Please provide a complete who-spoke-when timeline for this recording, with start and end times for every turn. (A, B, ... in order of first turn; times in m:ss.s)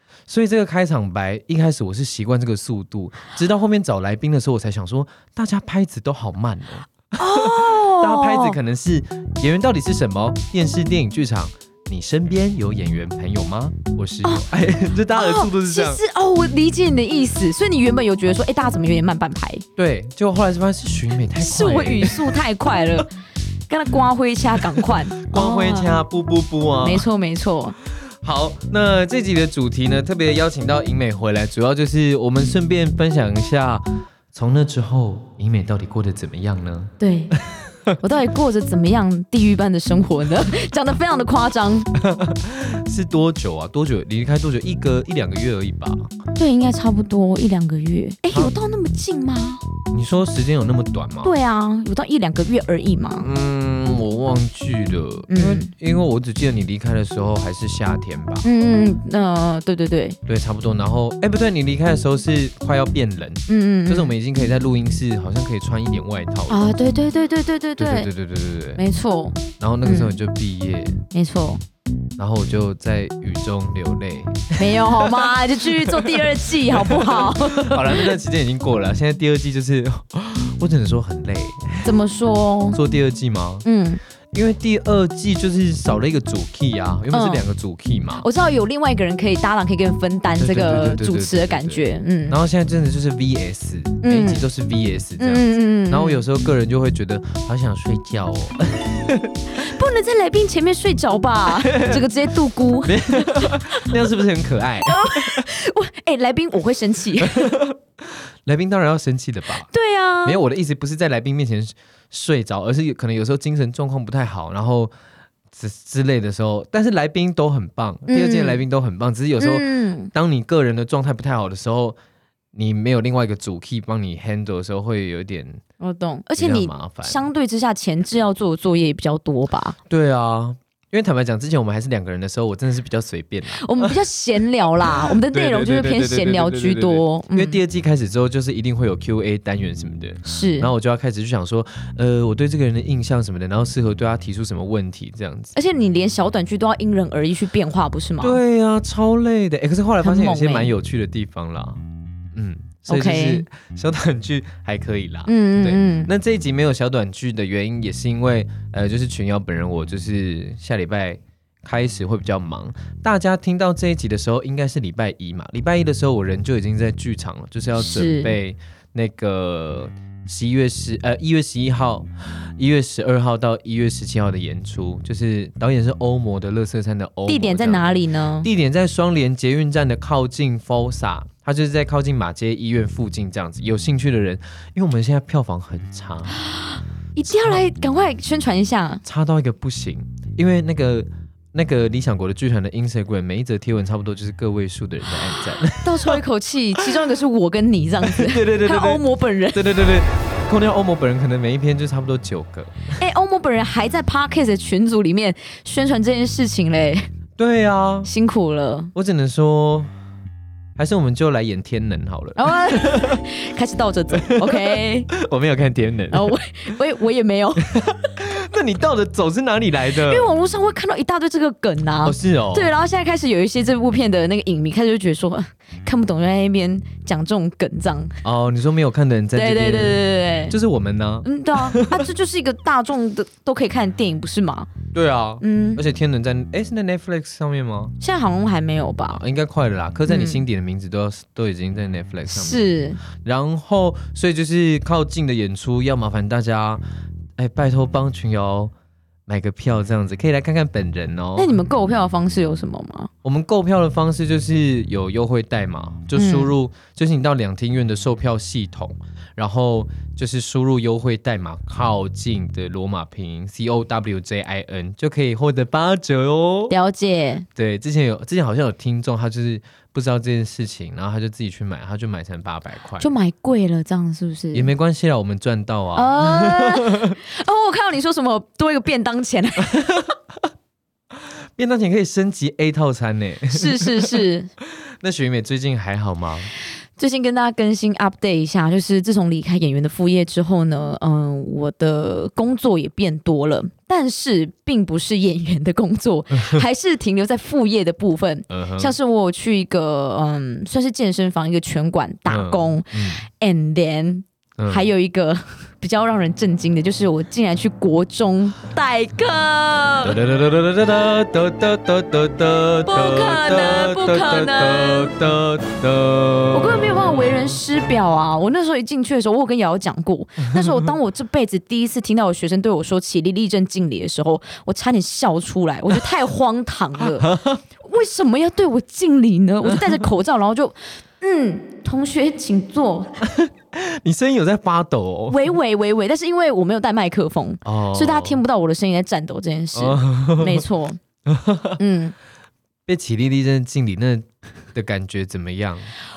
0:00.3-0:16.0 A
0:07.2-0:08.6 B
0:15.1-0:19.6 B
0:19.8-0:22.4 A
0:21.4-0:23.1 B
0:23.7-0:25.9 B
0:24.8-0:27.1 A
0:26.8-0:27.8 B
0:28.2-0:38.0 A
0:37.0-0:37.4 B
0:38.0-0:41.9 B
0:41.9-0:46.1 A
0:46.4-0:49.6 B
0:48.3-0:48.6 A
0:49.9-0:51.3 A
0:51.2-0:53.3 B
0:53.2-0:58.5 A
0:55.3-0:55.7 B
0:58.4-1:00.2 B
1:00.3-1:06.7 A
1:03.5-1:04.1 B
1:06.5-1:08.1 B
1:07.8-1:08.8 A
1:08.8-1:10.2 B
1:09.6-1:11.0 A
1:11.1-1:11.6 B
1:12.2-1:21.9 A
1:14.6-1:18.1 B
1:21.8-1:22.8 B
1:22.7-1:23.7 A
1:23.6-1:24.0 B
1:24.3-1:28.3 A
1:27.1-1:27.4 B
1:28.2-1:32.4 B
1:30.4-1:39.4 A
1:34.0-1:34.4 B
1:35.2-1:36.2 B
1:39.5-1:44.0 B
1:41.6-1:42.1 A
1:42.9-1:45.5 A
1:44.8-1:47.6 B
1:47.2-1:49.7 A
1:49.7-1:50.4 B
1:50.2-1:54.9 A
1:55.5-2:02.0 A
1:58.1-1:58.6 B
1:59.4-2:00.1 B
2:02.5-2:05.6 A
2:05.8-2:09.8 B
2:06.4-2:07.2 A
2:09.9-2:14.0 A
2:13.5-2:17.6 B
2:14.8-2:25.6 A
2:20.3-2:20.7 B
2:25.6-2:28.4 B
2:28.2-2:57.9 A
2:30.0-2:30.7 B
2:32.9-2:33.4 B
2:35.3-2:36.1 B
2:47.8-2:48.3 B
2:57.3-2:58.5 B
2:58.4-3:06.4 A
3:06.4-3:09.0 B
3:07.3-3:07.6 A
3:09.0-3:16.2 A
3:15.8-3:19.6 B
3:18.1-3:23.0 A
3:23.0-3:27.1 B
3:27.4-3:28.1 A
3:28.0-3:28.9 B
3:28.9-3:29.9 A
3:30.8-3:33.3 A
3:32.4-3:35.1 B
3:34.1-3:36.3 A
3:36.1-3:37.9 B
3:37.7-3:40.3 A
3:39.9-3:48.2 B
3:42.0-3:42.7 A
3:48.2-3:52.0 A
3:49.4-3:50.6 B
3:51.2-3:54.7 B
3:54.9-3:58.0 A
3:55.4-3:55.8 B
3:58.0-3:59.2 B
3:59.1-4:06.8 A
4:00.1-4:00.4 B
4:02.3-4:03.0 B
4:07.4-4:08.7 A
4:09.3-4:11.5 A
4:11.4-4:13.1 B
4:13.2-4:26.8 A
4:16.2-4:16.5 B
4:26.7-4:27.5 B
4:27.6-4:33.1 A
4:33.0-4:34.7 B
4:34.5-4:37.2 A
4:36.0-4:40.0 B
4:39.6-4:40.2 A
4:41.2-4:44.2 A
4:43.5-4:44.5 B
4:45.0-4:46.5 A
4:47.0-5:10.2 B
4:58.5-4:59.0 A
5:02.3-5:03.2 A
5:04.6-5:04.9 A
5:10.0-5:17.1 A
5:12.9-5:15.1 B
5:16.5-5:27.3 B
5:27.0-5:27.6 A
5:27.8-5:33.2 B
5:33.2-5:35.5 A
5:35.3-5:41.0 B
5:37.6-5:38.4 A
5:39.7-5:40.6 A
5:41.3-5:41.8 A
5:41.8-5:42.1 B
5:42.9-5:45.9 A